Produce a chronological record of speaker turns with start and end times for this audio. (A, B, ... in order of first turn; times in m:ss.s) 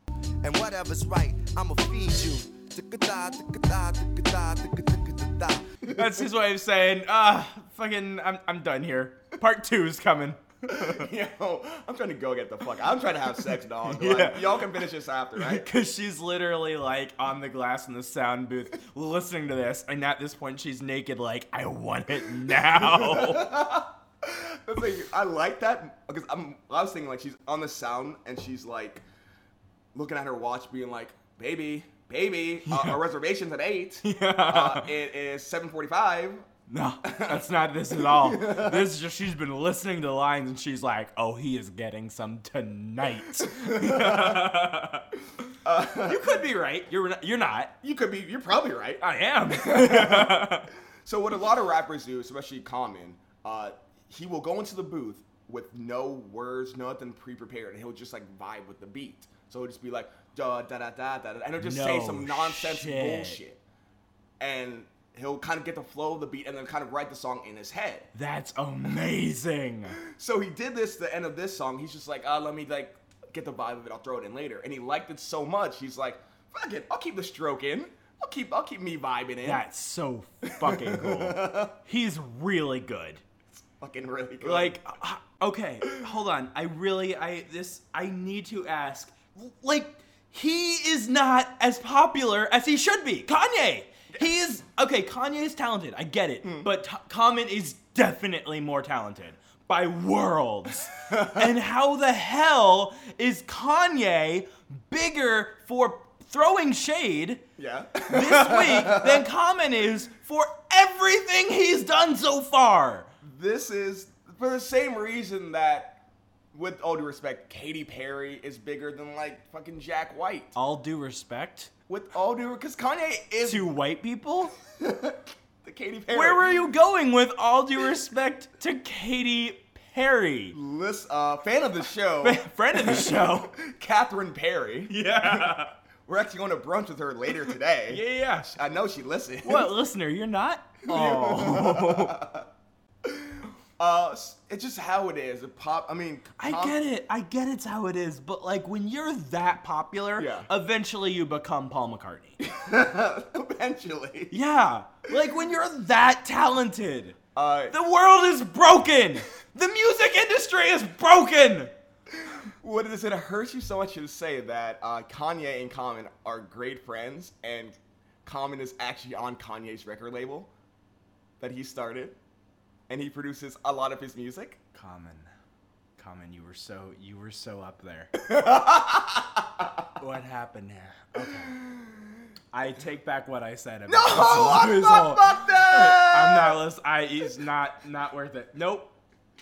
0:00.4-0:05.8 A
0:05.9-0:11.1 B
0:10.7-0:15.7 C
0:13.8-0:14.8 B
0:15.4-0:23.6 B
0:22.6-0:29.0 C
0:30.0-0:36.4 C
0:32.6-0:33.0 B
0:34.0-0:34.9 B
0:36.7-0:45.1 B
0:37.0-0:38.9 C
0:43.5-0:44.5 C
0:45.6-0:46.3 C
0:46.0-0:47.7 B
0:47.8-0:50.5 C
0:49.0-0:50.7 B
0:51.0-1:03.6 C
1:01.6-1:03.4 B
1:04.4-1:08.1 C
1:08.2-1:10.0 B
1:10.0-1:19.6 C
1:19.4-1:23.2 B
1:20.4-1:21.8 C
1:23.8-1:24.8 C
1:24.4-1:47.4 B
1:36.4-1:36.7 C
1:41.1-1:41.4 C
1:47.6-1:49.2 C
1:48.1-1:53.1 B
1:53.2-1:56.0 C
1:56.5-2:00.6 C
2:00.6-2:01.7 B
2:01.9-2:03.7 C
2:03.4-2:04.6 B
2:04.8-2:06.6 C
2:06.1-2:10.6 B
2:10.5-2:19.7 C
2:12.2-2:13.5 B
2:14.9-2:15.7 B
2:17.9-2:18.6 B
2:19.4-2:22.2 B
2:20.8-2:22.5 C
2:23.0-2:26.8 C
2:26.4-2:32.4 B
2:30.2-2:30.5 C
2:32.4-2:34.4 C
2:34.3-2:37.2 B
2:37.4-2:37.8 C
2:37.7-2:41.7 B
2:42.2-2:50.5 C
2:51.4-2:52.2 C
2:52.9-2:54.6 C
2:54.7-2:55.3 B
2:56.0-2:58.1 B
2:58.2-2:59.8 C
3:00.0-3:01.6 B
3:01.3-3:02.0 C
3:02.5-3:08.9 B
3:03.9-3:06.6 C